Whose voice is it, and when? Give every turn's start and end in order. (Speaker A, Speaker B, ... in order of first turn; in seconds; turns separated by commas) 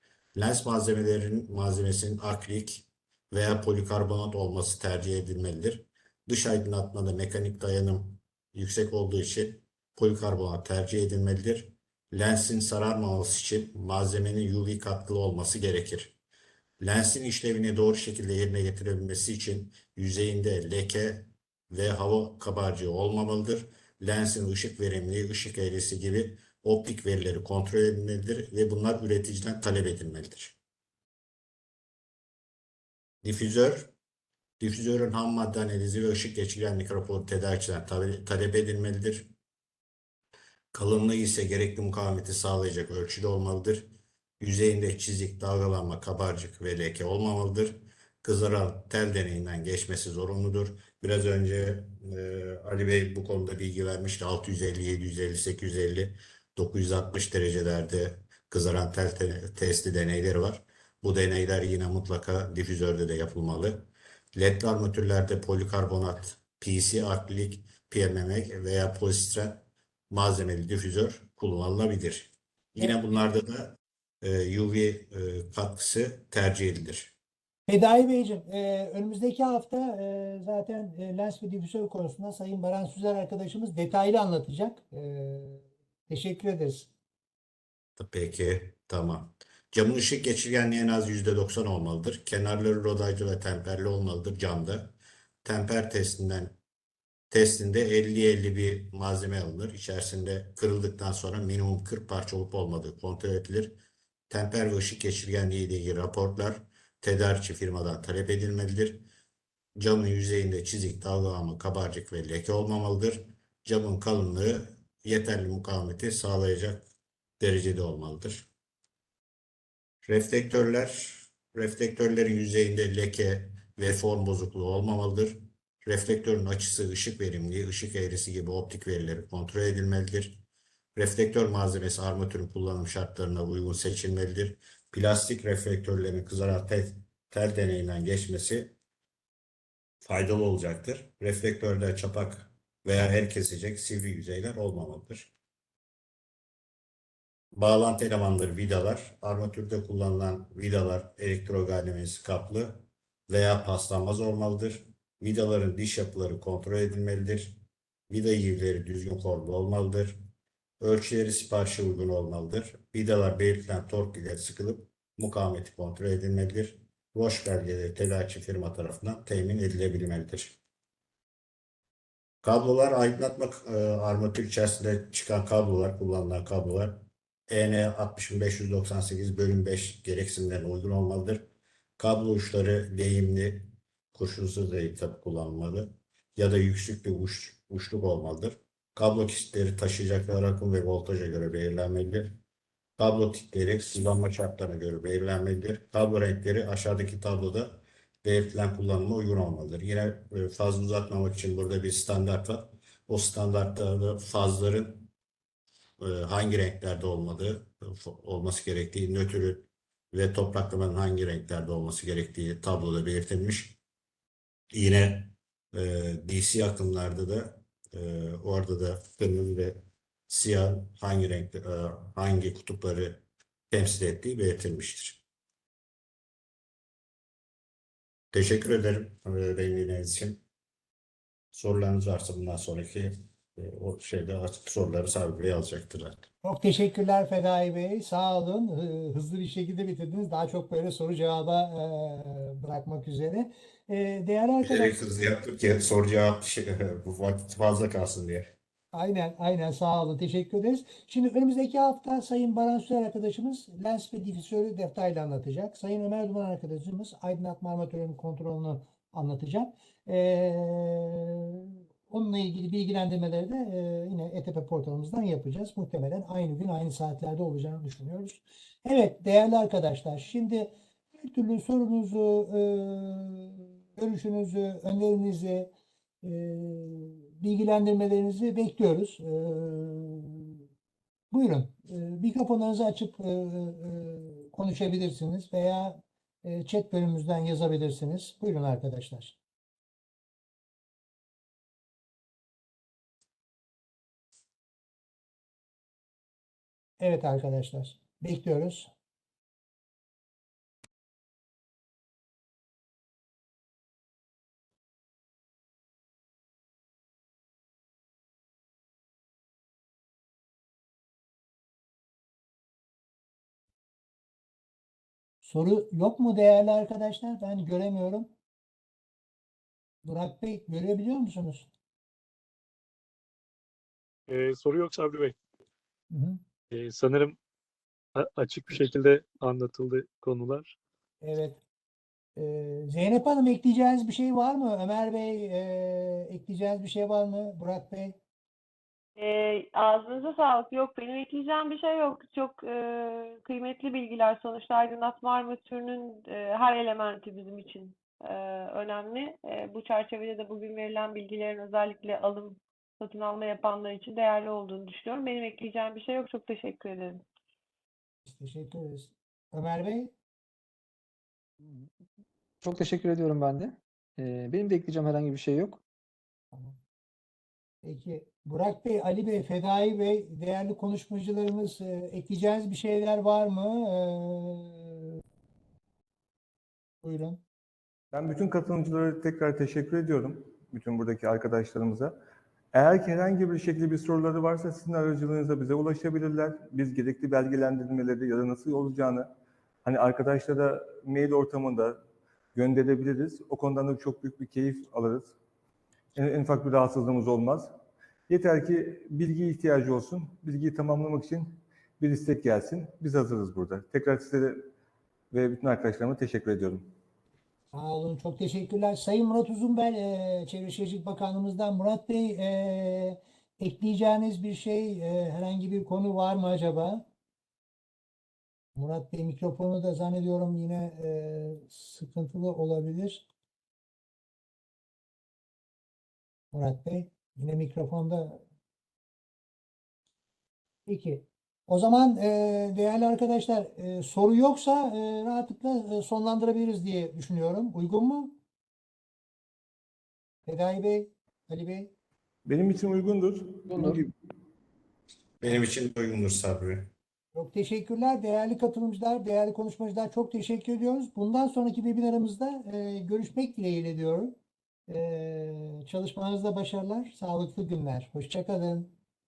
Speaker A: 0.3-16.1, Speaker A: 16.8-30.5, Speaker A: 33.2-33.9, Speaker A: 34.6-39.3, Speaker A: 40.7-77.1, Speaker B: 77.7-86.9, Speaker A: 88.0-96.5, Speaker A: 97.3-103.8, Speaker A: 104.3-109.0, Speaker A: 109.8-116.8, Speaker A: 117.4-118.5, Speaker A: 120.0-130.4, Speaker A: 130.9-138.7, Speaker A: 140.0-145.3, Speaker A: 147.6-157.6, Speaker A: 158.1-160.2, Speaker A: 160.8-170.6, Speaker A: 172.4-181.4, Speaker A: 182.0-192.3, Speaker A: 193.0-205.1, Speaker A: 206.0-213.8, Speaker A: 214.7-225.2, Speaker A: 228.3-230.4, Speaker A: 231.5-236.3, Speaker B: 236.4-244.9, Speaker A: 244.6-248.5, Speaker B: 248.9-275.7, Speaker B: 276.2-280.6, Speaker B: 281.3-289.4, Speaker B: 297.0-298.9, Speaker B: 315.4-318.3, Speaker B: 320.0-321.7, Speaker C: 324.3-325.4, Speaker B: 326.1-326.4, Speaker C: 326.7-327.4, Speaker C: 328.1-330.7, Speaker B: 331.2-331.6, Speaker B: 332.4-338.2, Speaker D: 339.2-357.2, Speaker B: 358.2-360.1, Speaker E: 362.6-365.8, Speaker B: 367.8-375.2, Speaker B: 377.0-377.4, Speaker F: 378.1-382.1, Speaker F: 382.7-389.3, Speaker F: 389.8-391.9, Speaker F: 392.5-395.3, Speaker F: 396.1-397.7, Speaker F: 398.3-404.6, Speaker F: 405.3-406.9, Speaker B: 407.7-417.1, Speaker B: 418.7-423.2, Speaker B: 426.5-428.4, Speaker B: 430.9-438.4, Speaker B: 440.4-441.9, Speaker F: 442.4-444.1, Speaker E: 443.7-444.0, Speaker A: 445.4-446.9, Speaker B: 447.3-454.4, Speaker B: 454.9-458.9